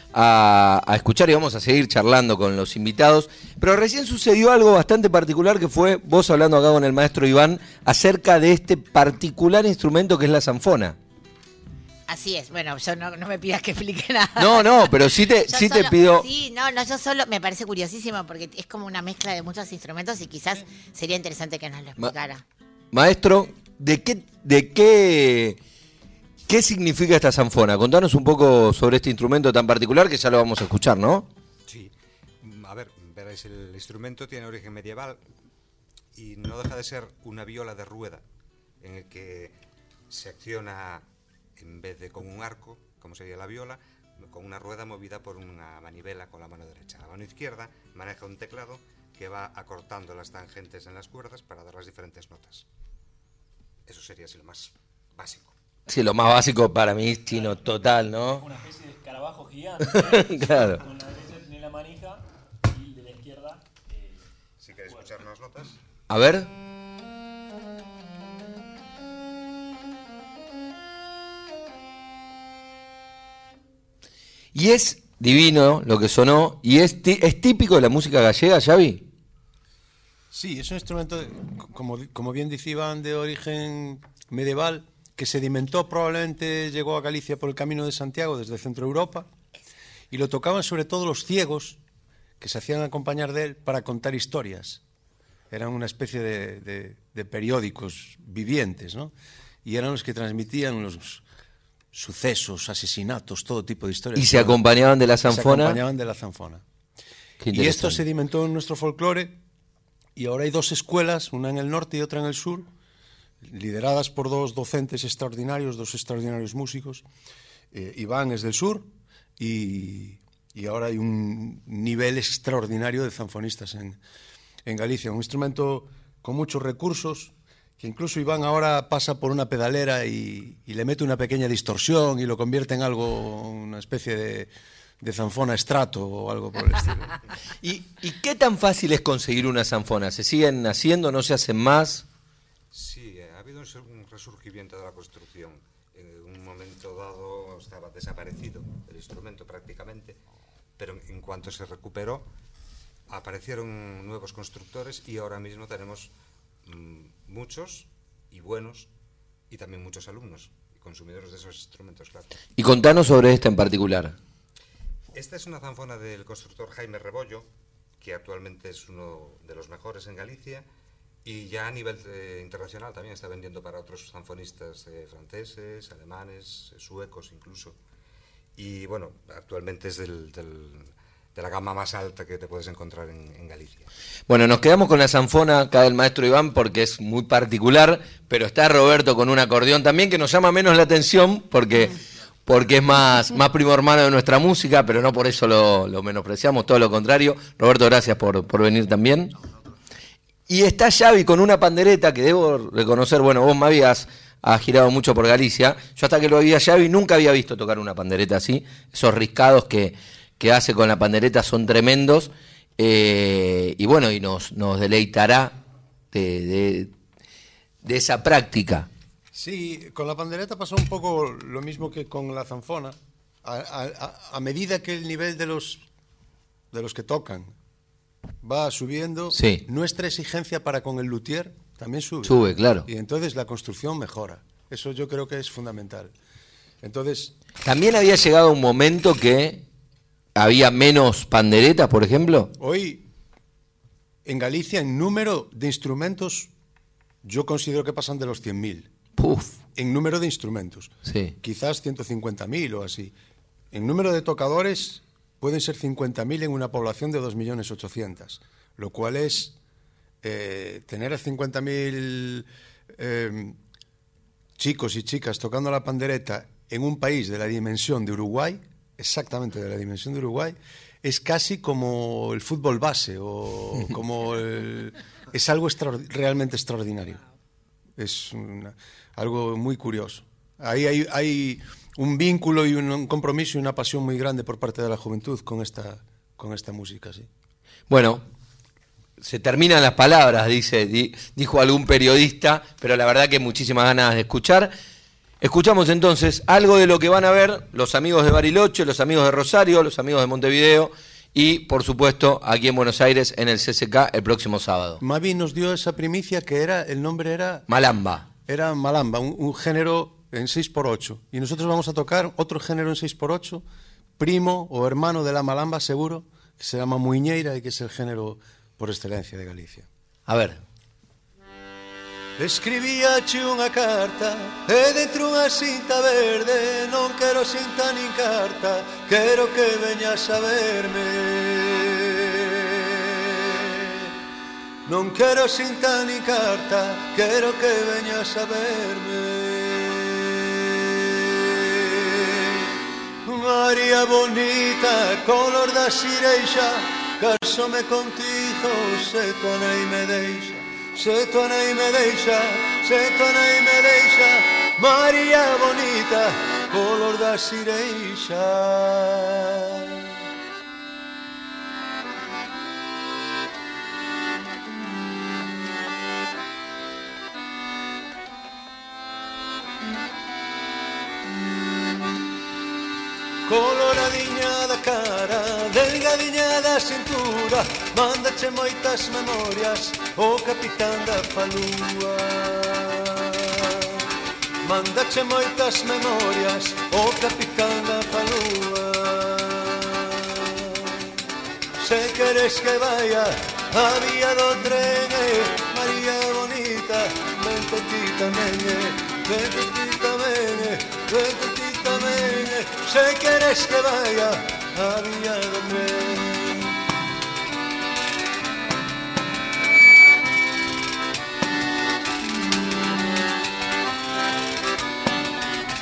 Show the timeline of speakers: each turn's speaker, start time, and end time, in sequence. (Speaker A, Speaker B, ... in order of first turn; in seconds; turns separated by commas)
Speaker A: 0.1-10.9, Speaker B: 12.1-22.4, Speaker A: 14.4-16.3, Speaker A: 22.9-25.6, Speaker A: 26.5-31.3, Speaker C: 31.7-35.2, Speaker C: 36.1-38.2, Speaker C: 38.8-39.5, Speaker C: 40.1-41.0, Speaker C: 41.6-52.6, Speaker C: 53.9-55.5, Speaker A: 55.9-58.4, Speaker D: 58.4-64.2, Speaker A: 59.8-60.8, Speaker C: 64.6-65.8, Speaker A: 66.1-66.5, Speaker A: 74.5-79.0, Speaker E: 80.3-89.3, Speaker E: 90.1-91.8, Speaker E: 92.4-94.8, Speaker E: 95.5-99.1, Speaker E: 99.6-101.2, Speaker E: 101.9-104.6, Speaker A: 104.2-105.8, Speaker E: 105.2-106.6, Speaker A: 107.4-108.0, Speaker E: 107.5-109.4, Speaker E: 110.2-112.7, Speaker E: 113.4-117.0, Speaker E: 117.7-124.0, Speaker E: 124.6-137.1, Speaker A: 137.6-142.0, Speaker C: 142.7-150.2, Speaker C: 150.8-152.3, Speaker C: 153.1-156.1, Speaker C: 156.6-158.9, Speaker C: 159.5-162.3, Speaker A: 162.6-164.1, Speaker C: 165.1-167.5, Speaker C: 168.0-170.6, Speaker C: 171.2-177.8, Speaker C: 178.6-183.9, Speaker A: 184.3-199.3, Speaker A: 200.5-215.6, Speaker A: 216.1-216.9, Speaker A: 217.8-218.9, Speaker E: 219.3-225.8, Speaker E: 226.7-227.5, Speaker E: 228.4-236.1, Speaker A: 229.3-229.6, Speaker A: 232.2-232.9, Speaker E: 236.8-237.3, Speaker A: 237.6-239.6, Speaker A: 240.3-242.5, Speaker E: 242.6-243.0, Speaker E: 244.2-246.5, Speaker E: 247.2-248.9, Speaker A: 249.2-249.6, Speaker E: 249.7-253.1, Speaker A: 251.1-251.3, Speaker E: 253.7-259.5, Speaker E: 260.2-263.6, Speaker E: 264.6-277.2, Speaker E: 278.0-287.3, Speaker A: 287.9-288.2, Speaker A: 289.2-294.7, Speaker A: 295.4-305.0, Speaker E: 305.0-307.6, Speaker A: 307.7-308.3, Speaker E: 308.4-313.6, Speaker E: 314.2-319.9, Speaker A: 320.3-320.6, Speaker E: 322.4-334.1, Speaker E: 334.9-360.2, Speaker E: 373.4-384.0, Speaker E: 384.6-391.2, Speaker E: 391.8-406.8